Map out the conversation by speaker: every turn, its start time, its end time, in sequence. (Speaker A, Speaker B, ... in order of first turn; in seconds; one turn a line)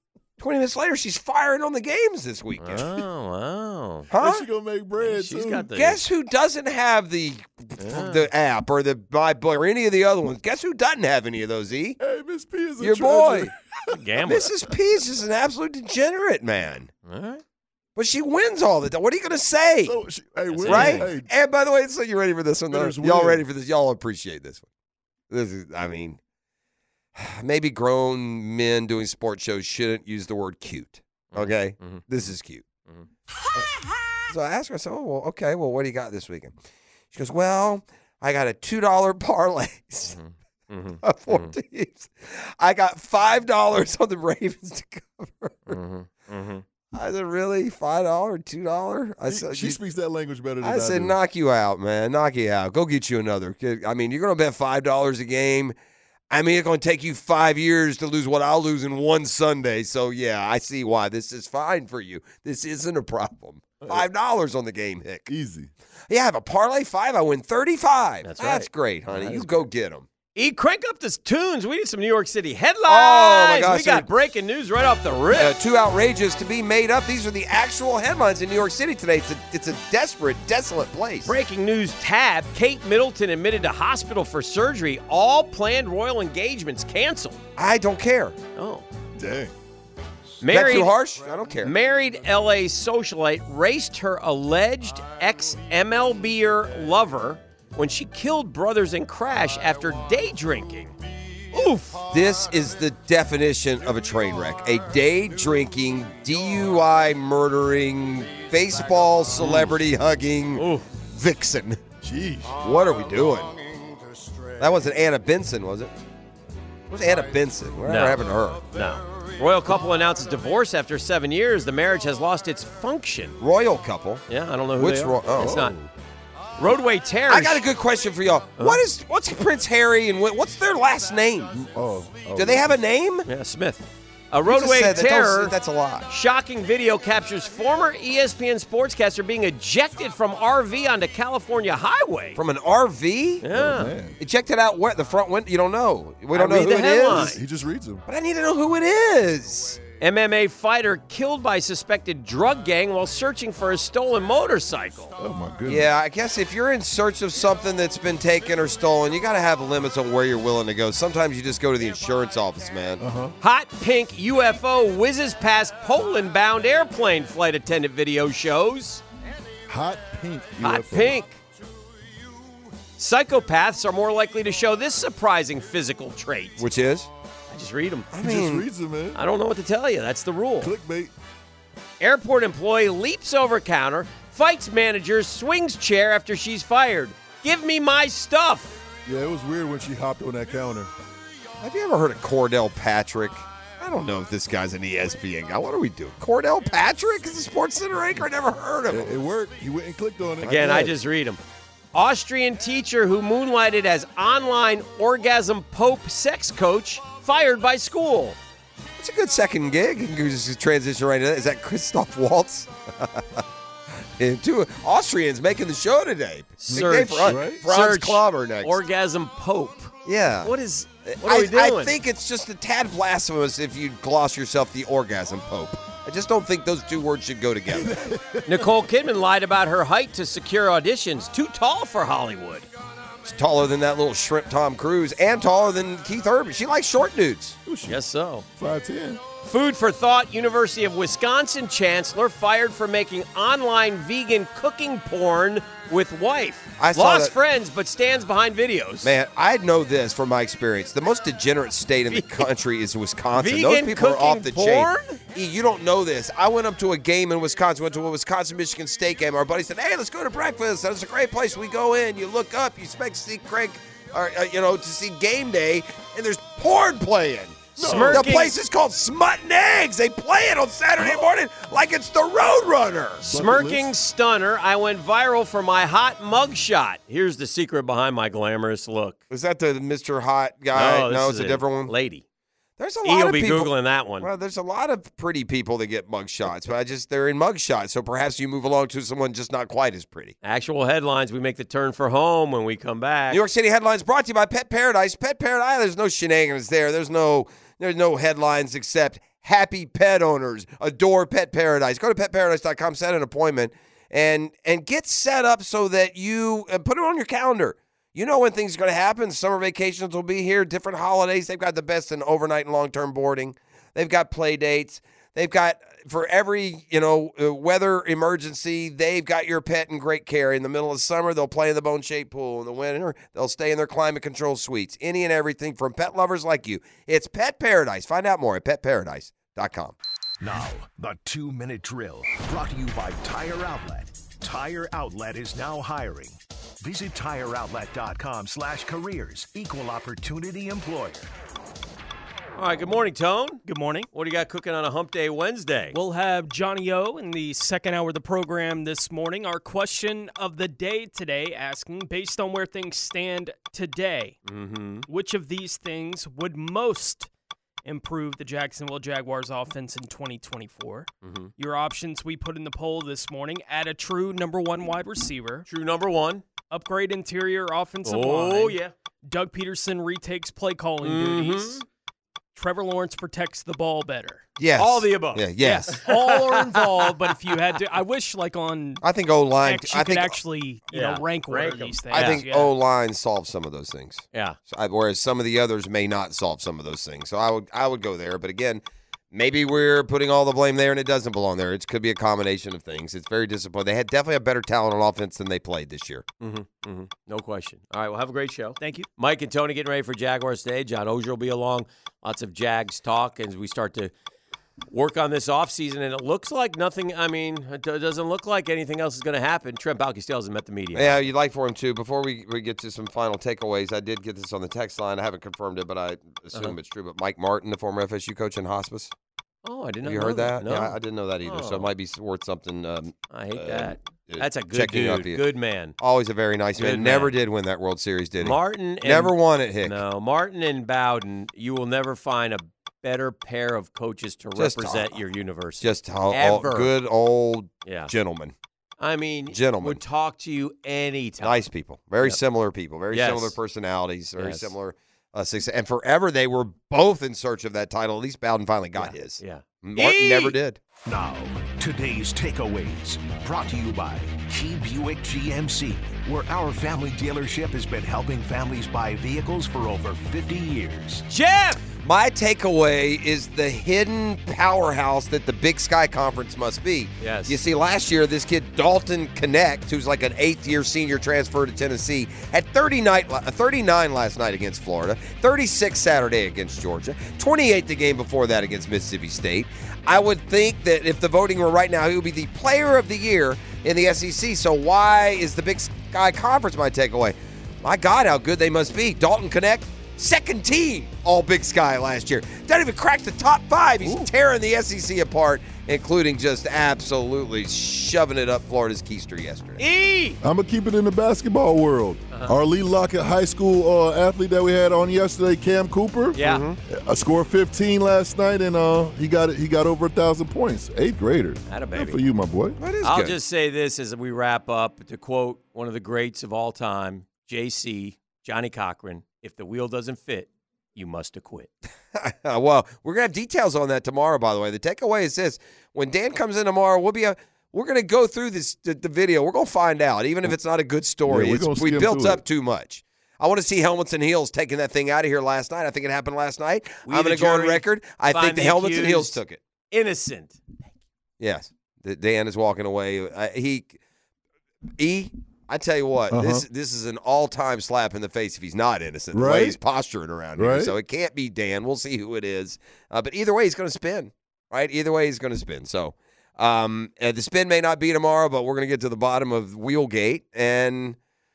Speaker A: 0.4-3.0
Speaker B: 2.6-4.1
Speaker A: 4.1-4.5
Speaker C: 4.2-5.7
Speaker B: 5.0-6.0
Speaker A: 5.7-12.0
Speaker B: 7.8-8.3
Speaker C: 12.0-14.0
Speaker A: 12.8-13.5
Speaker B: 13.9-14.5
Speaker A: 14.2-16.9
Speaker B: 17.1-17.4
Speaker A: 18.0-20.0
Speaker C: 19.8-21.3
Speaker B: 20.5-21.1
Speaker A: 20.6-24.7
Speaker C: 22.7-23.4
Speaker A: 25.3-26.2
Speaker A: 27.2-32.6
Speaker B: 31.3-32.0
Speaker A: 34.3-36.5
Speaker A: 37.1-40.2
Speaker B: 40.1-41.5
Speaker A: 41.0-45.8
Speaker B: 45.7-46.6
Speaker A: 47.0-49.8
Speaker C: 49.3-51.2
Speaker A: 50.6-55.7
Speaker A: 56.3-65.3
Speaker C: 65.3-65.7
Speaker A: 66.1-70.1
Speaker B: 68.2-68.7
Speaker C: 69.2-69.6
Speaker B: 70.3-75.5
Speaker A: 72.9-74.1
Speaker A: 75.3-81.3
Speaker B: 81.3-87.4
Speaker A: 87.6-88.4
Speaker B: 88.6-88.9
Speaker C: 89.2-89.5
Speaker B: 90.4-91.0
Speaker A: 90.5-91.8
Speaker B: 91.6-101.0
Speaker B: 101.5-102.0
Speaker A: 102.1-111.8
Speaker B: 109.4-109.8
Speaker B: 110.6-110.9
Speaker C: 112.0-112.5
Speaker A: 112.5-113.5
Speaker A: 114.6-115.9
Speaker A: 116.9-118.7
Speaker B: 117.8-123.4
Speaker A: 123.4-125.7
Speaker B: 124.3-125.8
Speaker C: 125.4-125.9
Speaker B: 126.6-127.7
Speaker A: 127.3-131.6
Speaker C: 131.5-132.7
Speaker A: 132.3-133.3
Speaker B: 133.3-135.6
Speaker A: 134.4-136.1
Speaker B: 136.1-142.4
Speaker A: 142.4-143.4
Speaker B: 143.4-143.9
Speaker C: 143.5-144.2
Speaker A: 144.2-147.4
Speaker B: 146.3-147.4
Speaker C: 147.1-148.0
Speaker A: 148.1-149.8
Speaker B: 150.0-155.2
Speaker C: 155.2-155.9
Speaker A: 155.7-163.0
Speaker C: 163.0-163.4
Speaker B: 163.4-169.0
Speaker C: 169.7-171.2
Speaker B: 170.6-171.4
Speaker B: 173.0-176.7
Speaker A: 176.6-177.1
Speaker B: 177.5-178.1
Speaker A: 178.1-178.7
Speaker C: 178.2-179.2
Speaker B: 179.2-180.7
Speaker C: 180.6-181.1
Speaker B: 182.0-188.8
Speaker C: 189.1-190.9
Speaker A: 191.6-199.1
Speaker C: 198.9-201.0
Speaker B: 200.4-201.4
Speaker B: 201.9-208.4
Speaker A: 209.0-213.4
Speaker A: 214.2-218.8
Speaker B: 216.6-219.9
Speaker C: 216.7-217.6
Speaker A: 220.1-220.5
Speaker B: 220.4-222.0
Speaker A: 221.1-227.9
Speaker C: 227.7-228.7
Speaker B: 228.4-232.7
Speaker A: 233.2-237.6
Speaker C: 237.7-238.0
Speaker B: 237.9-238.4
Speaker C: 238.6-239.2
Speaker B: 239.4-249.1
Speaker A: 246.8-247.3
Speaker A: 249.0-273.2
Speaker B: 252.1-252.5
Speaker B: 253.3-255.2
Speaker C: 267.8-268.3
Speaker B: 267.8-268.6
Speaker C: 273.2-273.9
Speaker B: 273.2-279.2
Speaker A: 279.3-281.9
Speaker B: 280.7-282.2
Speaker A: 282.8-290.4
Speaker B: 283.0-284.3
Speaker B: 290.4-293.4
Speaker A: 293.3-330.0
Speaker D: 330.4-341.3
Speaker B: 342.6-346.0
Speaker E: 343.6-344.1
Speaker E: 345.9-354.4
Speaker B: 354.4-355.1
Speaker E: 355.1-357.3
Speaker E: 357.9-365.7
Speaker B: 361.2-361.5
Speaker B: 365.7-366.4
Speaker E: 366.7-371.8
Speaker B: 368.0-368.9
Speaker B: 371.0-371.9
Speaker E: 372.6-374.5
Speaker A: 374.6-376.0
Speaker B: 374.8-377.8
Speaker E: 375.6-379.0
Speaker A: 379.0-380.4
Speaker E: 379.6-382.7
Speaker B: 380.9-382.5
Speaker A: 382.1-396.2
Speaker B: 384.3-384.6
Speaker B: 396.4-404.1
Speaker E: 398.8-399.1
Speaker B: 404.9-411.2
Speaker A: 410.9-419.1
Speaker B: 419.6-421.9
Speaker A: 420.0-425.4
Speaker B: 423.3-425.9
Speaker A: 426.0-430.0
Speaker B: 426.8-427.3
Speaker B: 428.4-436.9
Speaker A: 434.6-435.2
Speaker A: 435.8-438.5
Speaker B: 437.9-438.1
Speaker B: 439.0-441.7
Speaker A: 439.5-440.0
Speaker A: 441.4-450.8
Speaker B: 443.1-443.6
Speaker B: 444.4-444.7
Speaker B: 449.0-450.6
Speaker D: 451.0-461.3
Speaker B: 461.3-461.8
Speaker A: 462.0-499.8
Speaker B: 467.2-467.6
Speaker B: 499.8-500.4
Speaker C: 500.4-512.8
Speaker B: 506.4-506.7
Speaker A: 506.4-506.8
Speaker B: 511.7-512.2
Speaker A: 512.8-513.4
Speaker B: 513.0-521.7
Speaker A: 522.1-539.6
Speaker C: 531.3-532.4
Speaker B: 537.1-539.4
Speaker B: 539.9-540.7
Speaker A: 541.4-544.0
Speaker A: 545.0-561.2
Speaker C: 546.3-546.6
Speaker C: 549.3-549.8
Speaker C: 550.6-550.9